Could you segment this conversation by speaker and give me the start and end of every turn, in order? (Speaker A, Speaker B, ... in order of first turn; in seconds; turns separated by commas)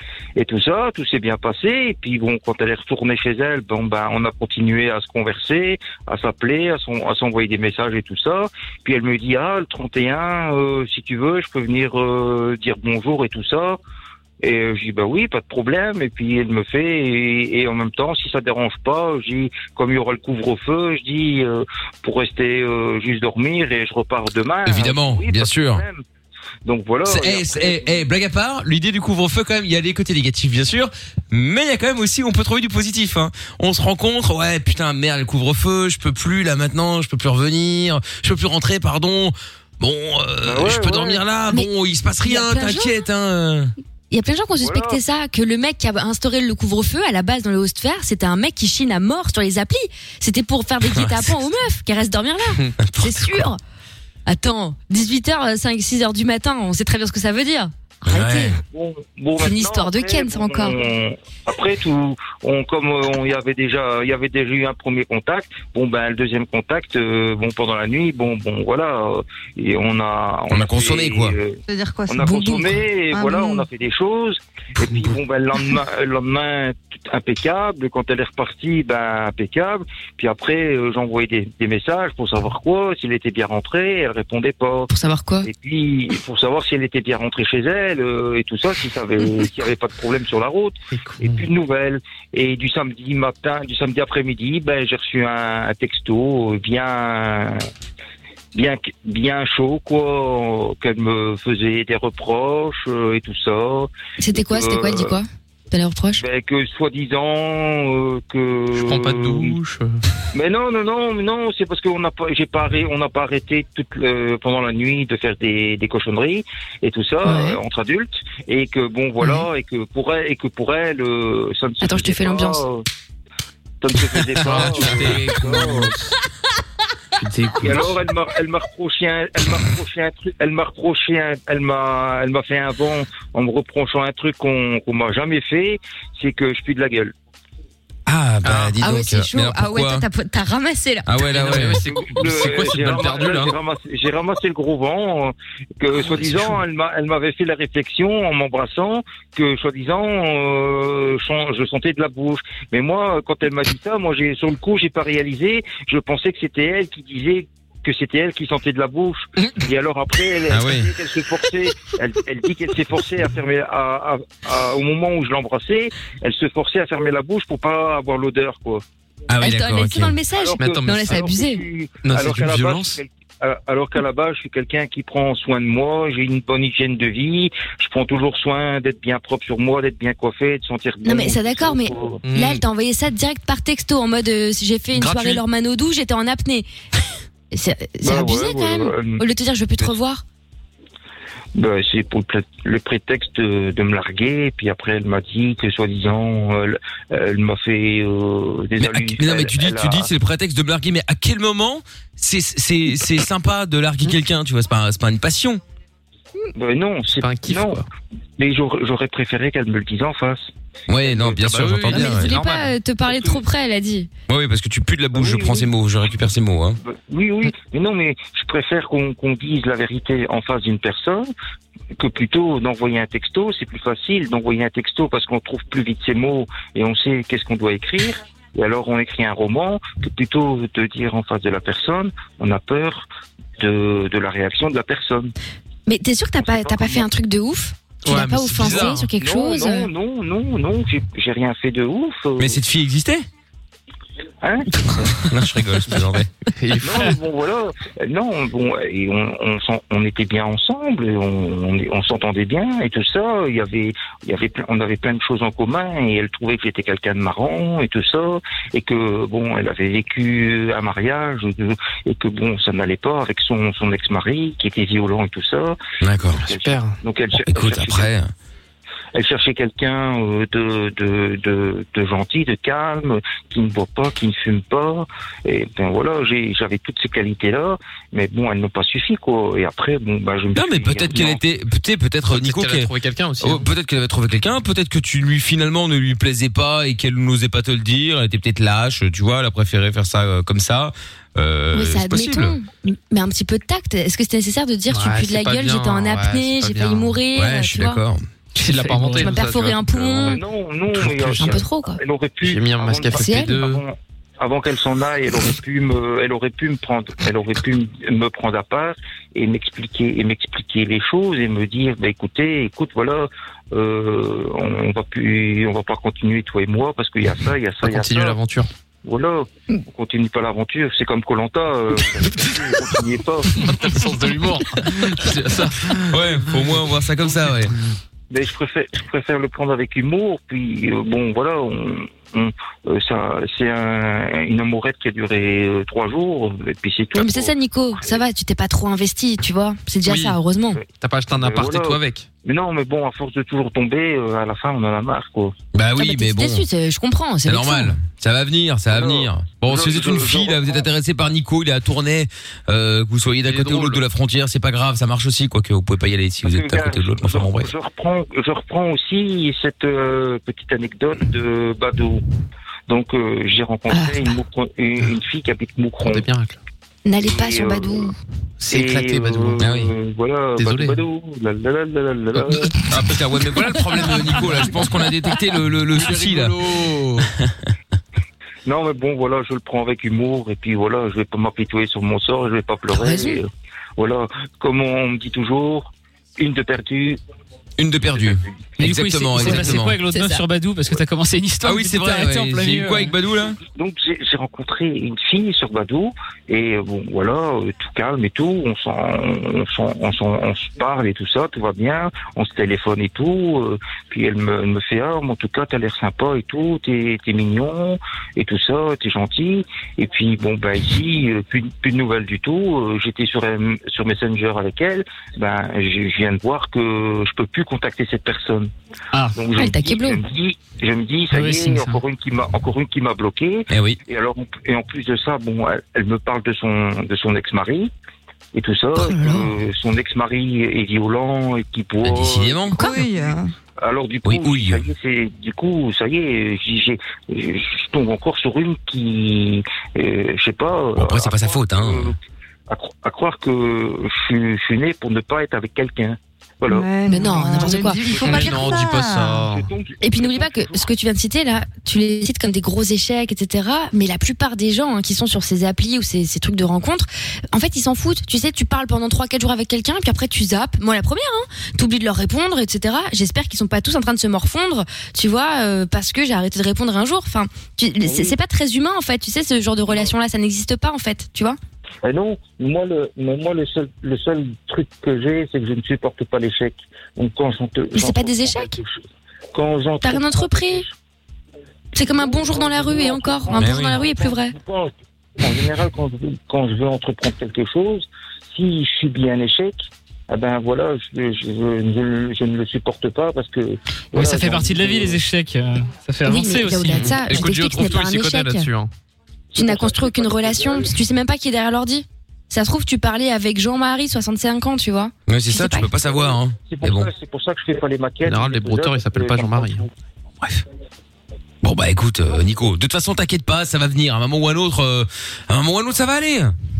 Speaker A: 0.4-13.8, Speaker A: 14.4-26.0, Speaker B: 24.6-25.8, Speaker A: 26.6-28.0, Speaker B: 27.1-43.7, Speaker A: 40.4-41.2, Speaker C: 42.2-43.0, Speaker C: 44.1-53.6, Speaker A: 44.6-45.0, Speaker B: 50.9-51.3, Speaker B: 52.8-53.4, Speaker C: 54.3-58.6, Speaker B: 58.0-58.6, Speaker A: 58.7-84.9, Speaker C: 59.4-60.8, Speaker B: 70.5-71.4, Speaker D: 71.7-73.7, Speaker C: 84.9-85.5, Speaker A: 85.4-97.7, Speaker E: 90.9-91.4, Speaker A: 98.5-105.2, Speaker C: 104.2-106.2, Speaker A: 106.2-109.6, Speaker E: 108.7-109.9, Speaker A: 110.3-122.8, Speaker C: 117.2-117.6, Speaker C: 119.2-119.5, Speaker C: 121.8-122.6, Speaker A: 123.8-125.9, Speaker B: 124.4-125.2, Speaker E: 124.4-125.9, Speaker E: 127.2-127.9, Speaker A: 127.6-137.1, Speaker B: 138.1-140.1, Speaker E: 138.4-138.8, Speaker C: 138.8-141.2, Speaker B: 141.1-141.8, Speaker E: 141.2-143.6, Speaker A: 142.1-168.8, Speaker B: 160.5-160.9, Speaker B: 169.3-170.2, Speaker C: 169.4-171.7, Speaker A: 170.4-182.2, Speaker E: 170.6-171.3, Speaker E: 172.0-173.0, Speaker C: 181.0-186.7, Speaker E: 182.2-182.6, Speaker E: 184.9-185.4, Speaker C: 187.5-190.2, Speaker A: 188.0-189.2, Speaker A: 191.6-200.1, Speaker B: 198.8-205.6, Speaker A: 206.6-207.8, Speaker E: 207.2-207.8, Speaker A: 208.4-210.5, Speaker B: 210.9-212.3, Speaker E: 211.1-212.7, Speaker C: 211.9-214.1, Speaker A: 213.1-213.4, Speaker B: 214.3-216.8, Speaker A: 215.1-215.7, Speaker A: 216.8-221.3, Speaker A: 222.0-233.1, Speaker A: 233.6-235.3, Speaker C: 235.9-239.9, Speaker A: 236.4-237.1, Speaker E: 238.0-239.1, Speaker A: 239.2-242.6, Speaker B: 242.4-243.3, Speaker A: 244.4-244.9, Speaker B: 245.3-246.3, Speaker E: 246.6-247.1, Speaker A: 246.8-265.8, Speaker B: 266.0-266.5, Speaker A: 266.4-268.1, Speaker E: 266.5-266.9, Speaker B: 267.4-268.3, Speaker A: 269.1-281.4, Speaker B: 280.6-292.6, Speaker E: 282.3-283.7, Speaker C: 291.7-298.0, Speaker E: 294.9-297.2, Speaker B: 297.3-298.2, Speaker E: 298.6-300.3, Speaker F: 298.6-299.3, Speaker C: 299.1-300.4, Speaker A: 300.3-318.4, Speaker E: 301.3-301.5, Speaker C: 301.4-302.0, Speaker E: 302.4-303.8, Speaker C: 303.1-303.6, Speaker E: 317.8-318.7, Speaker A: 319.1-323.8, Speaker E: 323.6-326.8, Speaker B: 326.0-327.7, Speaker A: 328.3-338.2, Speaker C: 337.2-340.8, Speaker E: 340.0-340.4, Speaker A: 340.8-345.6, Speaker E: 340.9-342.3, Speaker B: 345.7-346.7, Speaker C: 345.9-348.0, Speaker B: 347.4-357.7, Speaker A: 348.9-350.9, Speaker E: 353.4-354.0, Speaker A: 356.4-362.2, Speaker A: 362.9-366.3, Speaker C: 363.9-364.4, Speaker E: 366.0-366.6, Speaker C: 367.1-368.1, Speaker A: 367.3-368.1, Speaker E: 368.6-369.8, Speaker A: 368.6-372.8, Speaker B: 369.6-369.9, Speaker E: 370.6-371.0, Speaker E: 372.4-372.7, Speaker B: 372.7-376.6, Speaker E: 375.9-377.3, Speaker A: 378.7-387.2, Speaker C: 382.9-383.4, Speaker B: 387.8-390.0, Speaker F: 388.8-393.1, Speaker C: 389.4-390.4, Speaker B: 391.6-393.6, Speaker A: 393.6-418.7, Speaker A: 419.3-427.9, Speaker C: 419.6-420.2, Speaker F: 421.3-422.0, Speaker B: 423.7-424.0, Speaker A: 428.5-446.9, Speaker C: 429.0-429.5, Speaker B: 432.0-432.9, Speaker D: 432.7-433.5, Speaker B: 434.2-434.8, Speaker B: 440.9-442.1, Speaker D: 446.7-449.4, Speaker C: 447.1-448.1, Speaker A: 447.7-450.9, Speaker E: 448.2-449.6, Speaker C: 450.0-471.6, Speaker A: 468.0-468.4, Speaker A: 472.0-479.0, Speaker C: 477.9-478.7, Speaker A: 479.5-480.9, Speaker C: 480.0-480.9, Speaker C: 481.9-484.6, Speaker A: 482.1-495.2, Speaker B: 483.6-484.0, Speaker F: 494.1-497.2, Speaker C: 496.2-498.7, Speaker E: 496.9-498.9, Speaker A: 499.5-500.9, Speaker C: 499.6-505.9, Speaker B: 505.3-507.1, Speaker A: 506.7-509.9, Speaker E: 508.2-509.8, Speaker B: 511.6-516.5